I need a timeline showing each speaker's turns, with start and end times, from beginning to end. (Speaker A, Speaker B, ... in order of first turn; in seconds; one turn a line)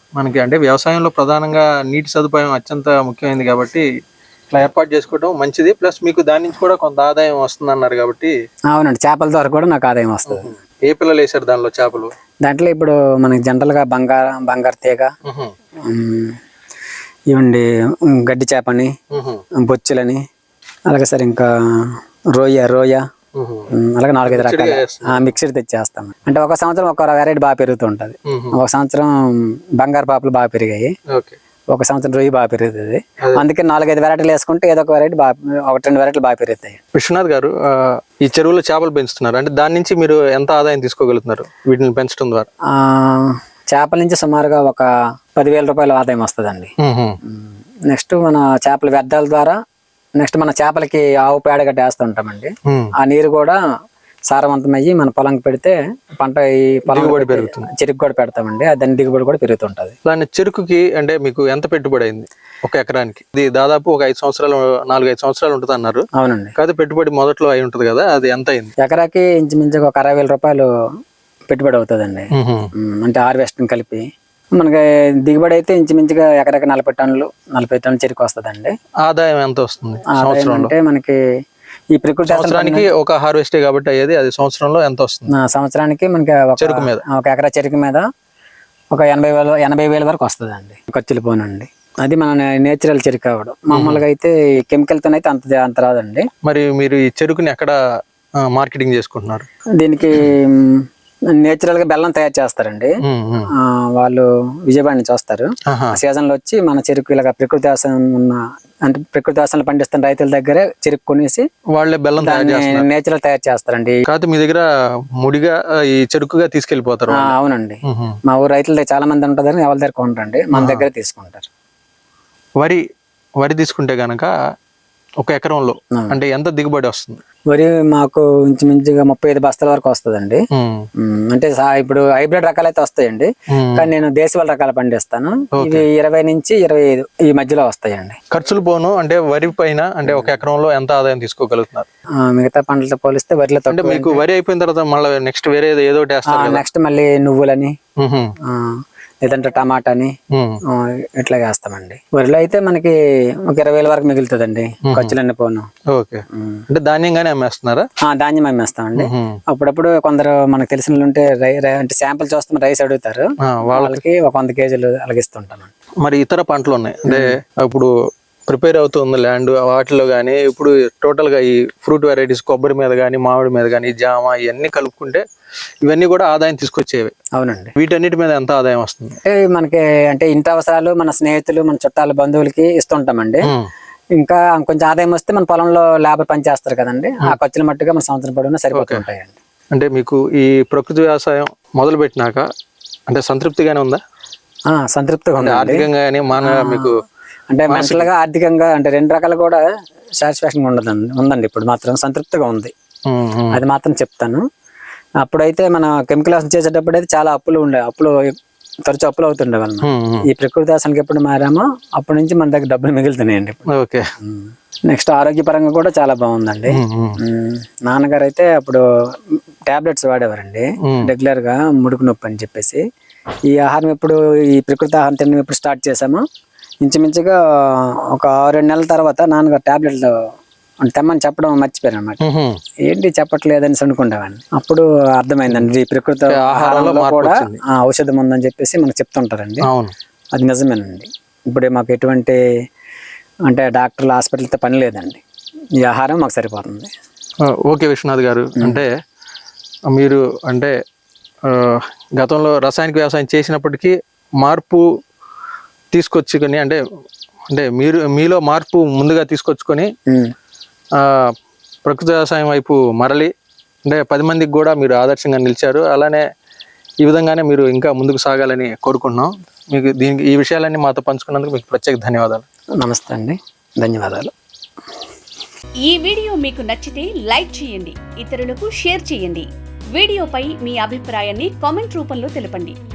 Speaker A: 0.2-3.9
Speaker A: 4.5-8.3
Speaker B: 8.7-10.5
Speaker A: 10.3-12.1
Speaker B: 12.4-15.1
Speaker A: 15.2-15.5
Speaker B: 15.8-16.4
Speaker B: 17.3-18.9
Speaker A: 19.1-19.4
Speaker B: 19.6-20.2
Speaker B: 20.9-23.0
Speaker A: 23.3-23.7
Speaker B: 23.7-30.9
Speaker A: 24.2-25.3
Speaker A: 28.3-28.6
Speaker A: 31.1-31.4
Speaker B: 31.7-36.8
Speaker A: 36.9-42.5
Speaker B: 42.7-46.7
Speaker A: 46.8-47.2
Speaker B: 47.3-49.6
Speaker B: 50.2-53.6
Speaker A: 52.6-52.9
Speaker B: 54.3-60.0
Speaker A: 56.9-57.7
Speaker A: 60.0-66.0
Speaker B: 66.1-66.5
Speaker A: 66.5-68.7
Speaker B: 68.8-70.7
Speaker B: 71.5-74.0
Speaker A: 72.3-72.7
Speaker B: 74.6-78.7
Speaker A: 79.0-80.7
Speaker B: 80.1-81.2
Speaker B: 81.9-82.9
Speaker A: 82.3-85.3
Speaker B: 85.3-88.0
Speaker A: 86.6-87.0
Speaker B: 88.9-96.3
Speaker A: 93.7-94.0
Speaker A: 96.4-97.8
Speaker A: 98.4-99.5
Speaker B: 99.8-102.9
Speaker A: 103.0-103.5
Speaker B: 103.6-111.4
Speaker A: 105.7-106.0
Speaker A: 111.7-112.9
Speaker B: 112.2-114.0
Speaker A: 114.1-114.6
Speaker A: 115.2-117.3
Speaker B: 117.1-121.5
Speaker A: 117.9-118.2
Speaker A: 120.5-120.8
Speaker A: 123.4-124.3
Speaker A: 125.2-127.2
Speaker B: 127.5-130.4
Speaker A: 130.5-130.8
Speaker B: 131.0-138.2
Speaker A: 133.5-133.9
Speaker A: 135.6-135.8
Speaker A: 138.3-141.9
Speaker B: 140.1-140.4
Speaker B: 142.2-144.2
Speaker A: 143.7-146.6
Speaker B: 146.3-147.7
Speaker A: 148.0-148.3
Speaker B: 148.4-150.1
Speaker A: 150.3-150.6
Speaker B: 150.7-155.7
Speaker A: 154.8-155.1
Speaker A: 155.9-157.9
Speaker B: 156.3-156.6
Speaker B: 158.0-165.7
Speaker A: 159.0-159.4
Speaker A: 163.4-164.0
Speaker A: 166.0-167.9
Speaker B: 167.1-167.3
Speaker A: 168.5-175.2
Speaker A: 175.8-177.1
Speaker B: 177.3-177.7
Speaker A: 177.8-179.2
Speaker B: 179.2-183.5
Speaker B: 184.2-189.3
Speaker A: 188.7-189.0
Speaker A: 189.7-192.5
Speaker A: 193.1-194.0
Speaker B: 194.7-195.9
Speaker A: 195.4-196.9
Speaker B: 196.4-196.9
Speaker B: 197.5-199.6
Speaker A: 197.7-198.1
Speaker B: 200.2-202.7
Speaker A: 203.1-203.6
Speaker B: 203.5-204.4
Speaker B: 205.2-208.3
Speaker B: 208.9-213.7
Speaker A: 209.8-210.2
Speaker A: 213.7-214.1
Speaker B: 214.2-218.8
Speaker A: 216.7-217.2
Speaker B: 219.7-222.8
Speaker A: 220.8-221.1
Speaker B: 223.5-226.2
Speaker B: 226.8-230.1
Speaker B: 230.8-232.2
Speaker A: 232.2-232.6
Speaker B: 232.8-239.7
Speaker A: 236.3-237.6
Speaker A: 239.6-239.9
Speaker B: 240.3-242.4
Speaker B: 243.5-245.2
Speaker B: 245.8-246.9
Speaker A: 247.4-248.9
Speaker B: 248.6-248.8
Speaker A: 249.9-250.7
Speaker A: 251.4-254.8
Speaker A: 255.9-256.8
Speaker A: 257.5-259.9
Speaker B: 260.1-260.3
Speaker A: 260.9-261.3
Speaker A: 261.8-263.3
Speaker A: 263.8-266.2
Speaker A: 267.0-272.4
Speaker B: 272.8-274.3
Speaker C: 275.8-282.8